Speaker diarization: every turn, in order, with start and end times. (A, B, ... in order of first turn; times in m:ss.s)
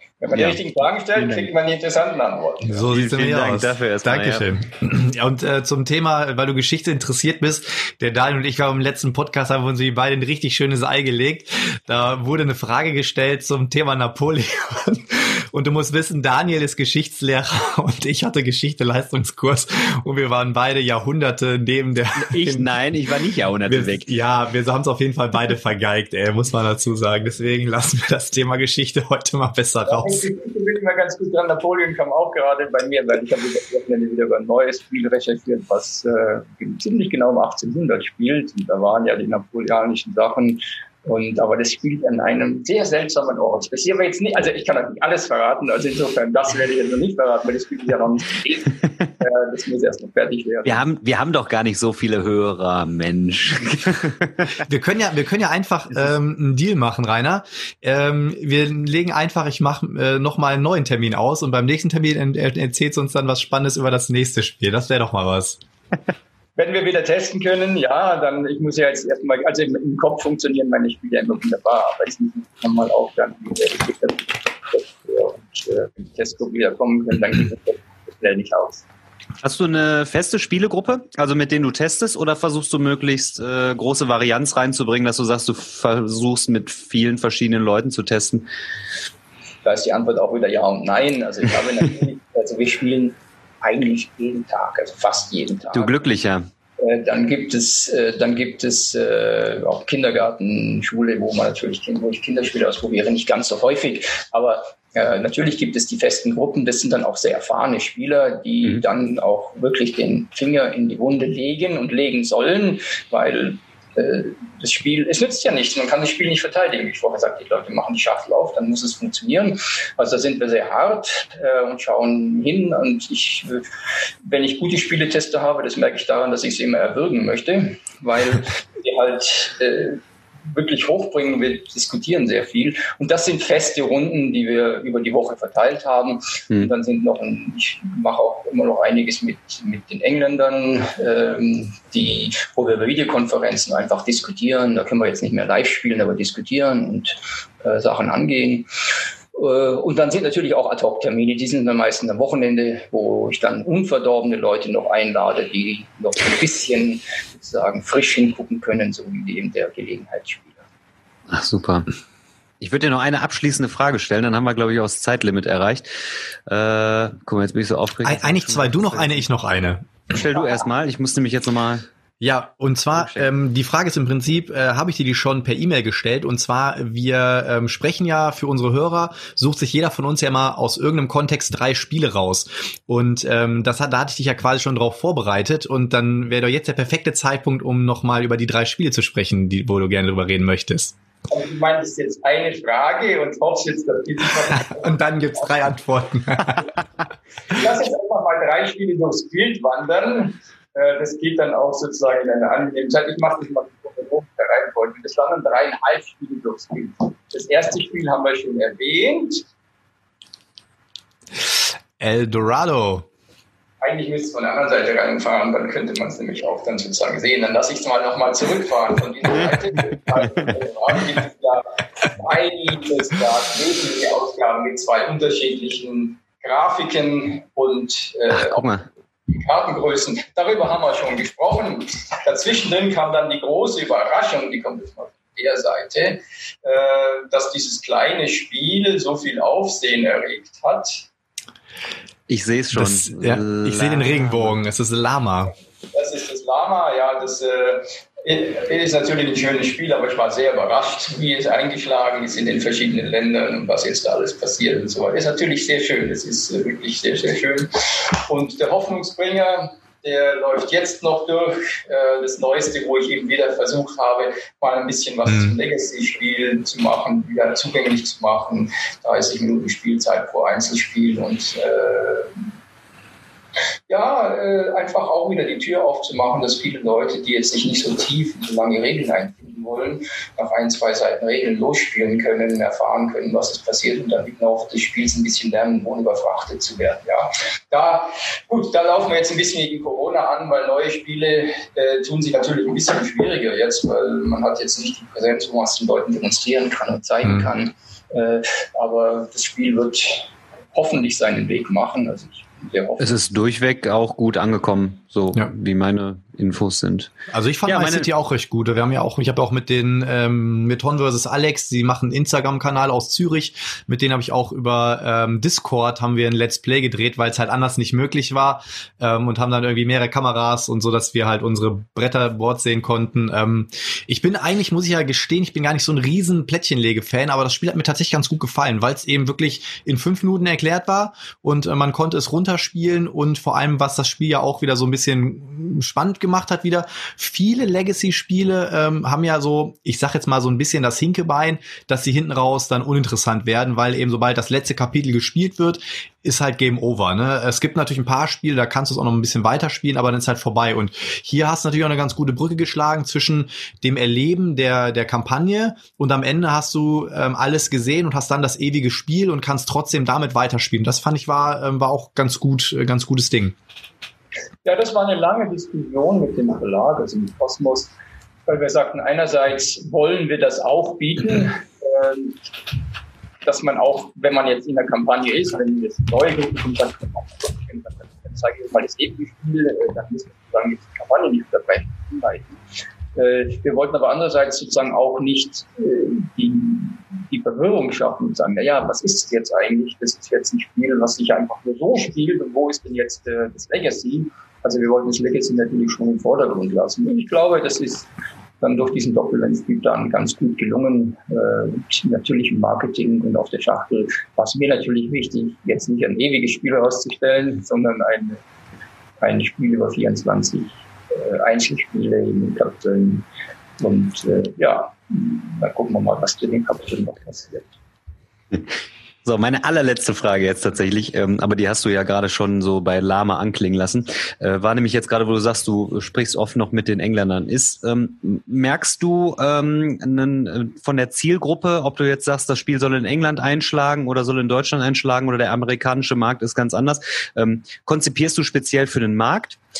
0:00.2-0:02.9 A
0:01.1-0:01.5 B
0:02.6-0:22.7 C
0:02.9-0:04.5 B
0:22.2-0:24.1 B
0:23.7-0:30.2 C
0:29.8-0:50.8 A
0:50.6-0:54.6 B
0:54.6-1:05.6 C
1:06.6-1:18.8 A
1:19.4-1:28.5 B
1:29.6-1:36.0 A
1:35.7-1:36.5 B
1:36.8-2:03.6 A
2:04.2-2:28.7 A
2:29.3-2:40.6 A
2:41.3-2:41.9 B
2:42.6-2:45.9 B
2:46.5-2:49.2 B
2:48.0-2:49.9 C
2:50.1-2:51.8 B
2:52.2-3:10.9 C
2:53.0-2:53.2 B
3:11.3-3:14.9 A
3:14.5-3:16.6 C
3:17.5-3:29.4 A
3:31.5-3:33.1 C
3:33.8-4:01.1 A
3:48.3-3:48.8 B
4:02.3-4:04.6 B
4:02.7-4:05.5 C
4:05.9-4:32.5 A
4:25.3-4:25.6 C
4:33.9-5:03.2 A
5:03.0-5:07.1 B
5:07.3-6:03.6 C
5:07.6-5:08.1 B
6:04.6-6:07.9 A
6:08.5-6:12.4 A
6:13.4-6:22.5 A
6:23.1-6:38.0 A
6:38.6-6:48.4 A
6:49.2-6:53.2 A
6:53.8-6:57.7 A
6:59.2-7:19.6 B